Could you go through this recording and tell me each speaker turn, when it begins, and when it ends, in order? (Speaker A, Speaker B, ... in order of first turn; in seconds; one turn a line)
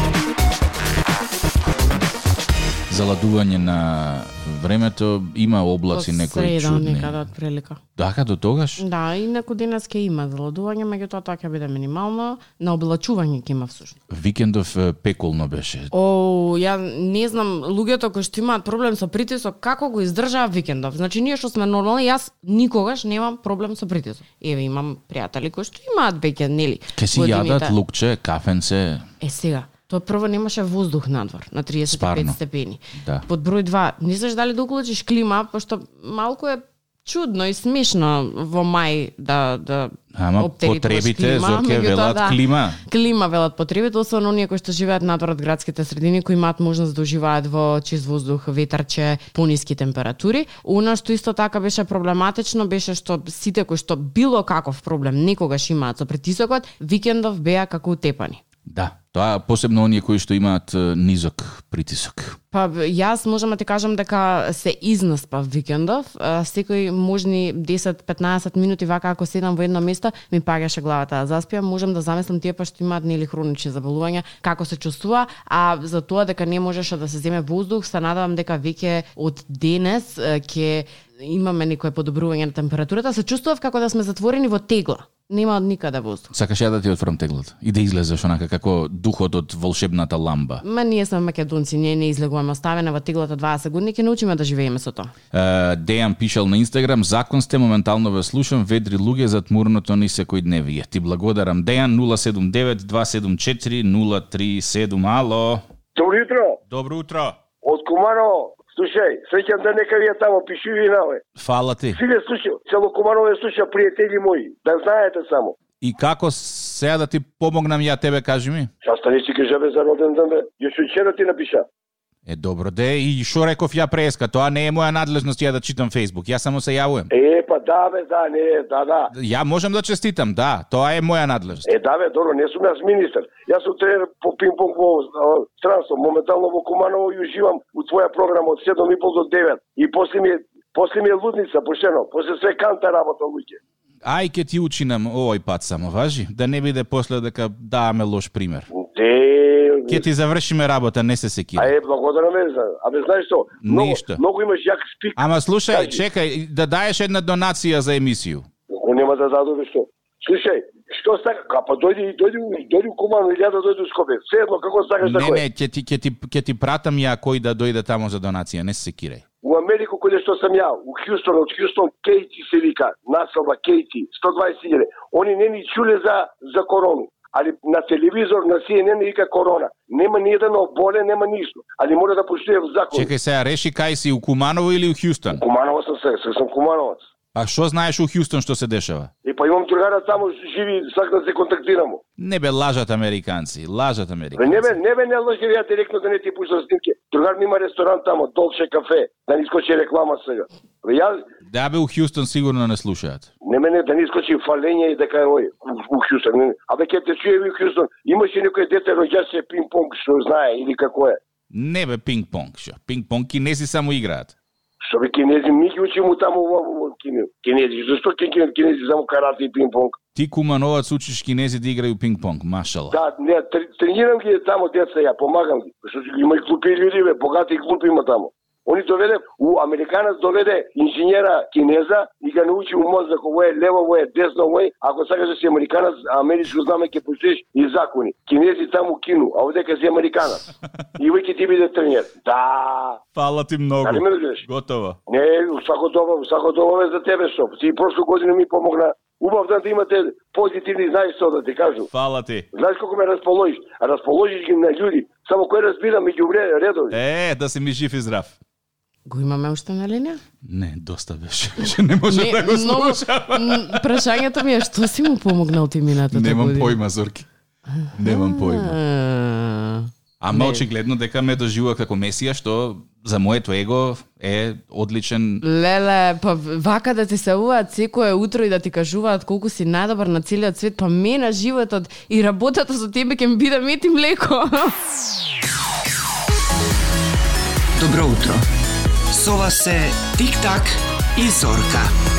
Speaker A: 2.9-7.2
Speaker B: 5.9-7.8
Speaker A: 8.0-8.8
Speaker B: 8.8-14.0
Speaker A: 14.1-15.9
Speaker B: 15.9-27.8
Speaker A: 26.9-29.1
Speaker B: 29.2-58.4
Speaker A: 31.9-32.4
Speaker A: 33.0-33.2
Speaker A: 40.1-42.8
Speaker A: 58.7-62.4
Speaker B: 62.5-86.3
Speaker A: 86.3-90.6
Speaker B: 90.6-95.1
Speaker A: 95.3-105.6
Speaker C: 106.0-106.6
Speaker A: 106.7-107.3
Speaker C: 107.6-111.2
Speaker A: 111.3-112.0
Speaker C: 111.9-115.6
Speaker A: 115.8-118.7
Speaker C: 118.8-121.7
Speaker A: 122.2-127.1
Speaker C: 127.1-129.1
Speaker A: 129.1-131.6
Speaker C: 131.6-143.6
Speaker A: 144.0-148.7
Speaker C: 148.7-150.1
Speaker A: 149.9-151.7
Speaker C: 151.6-156.0
Speaker A: 153.6-154.2
Speaker A: 155.2-158.4
Speaker C: 158.7-165.4
Speaker A: 165.0-169.2
Speaker C: 169.4-183.1
Speaker A: 182.9-185.4
Speaker C: 185.3-187.0
Speaker A: 187.3-189.1
Speaker C: 189.2-192.0
Speaker A: 192.2-194.7
Speaker C: 194.4-201.2
Speaker A: 201.5-203.3
Speaker C: 203.4-211.2
Speaker A: 211.5-214.3
Speaker C: 214.8-220.0
Speaker A: 220.2-223.0
Speaker C: 222.9-240.4
Speaker C: 241.0-243.0
Speaker A: 243.2-245.0
Speaker C: 243.8-244.4
Speaker C: 245.1-251.9
Speaker A: 251.9-252.5
Speaker C: 252.5-256.9
Speaker A: 256.9-258.4
Speaker B: 259.1-260.2
Speaker A: 260.4-264.0
Speaker B: 262.1-266.8
Speaker A: 266.1-267.3
Speaker B: 267.8-270.6
Speaker A: 267.9-268.8
Speaker A: 270.2-275.4
Speaker B: 275.4-284.7
Speaker D: 287.8-288.4
Speaker D: 289.1-291.9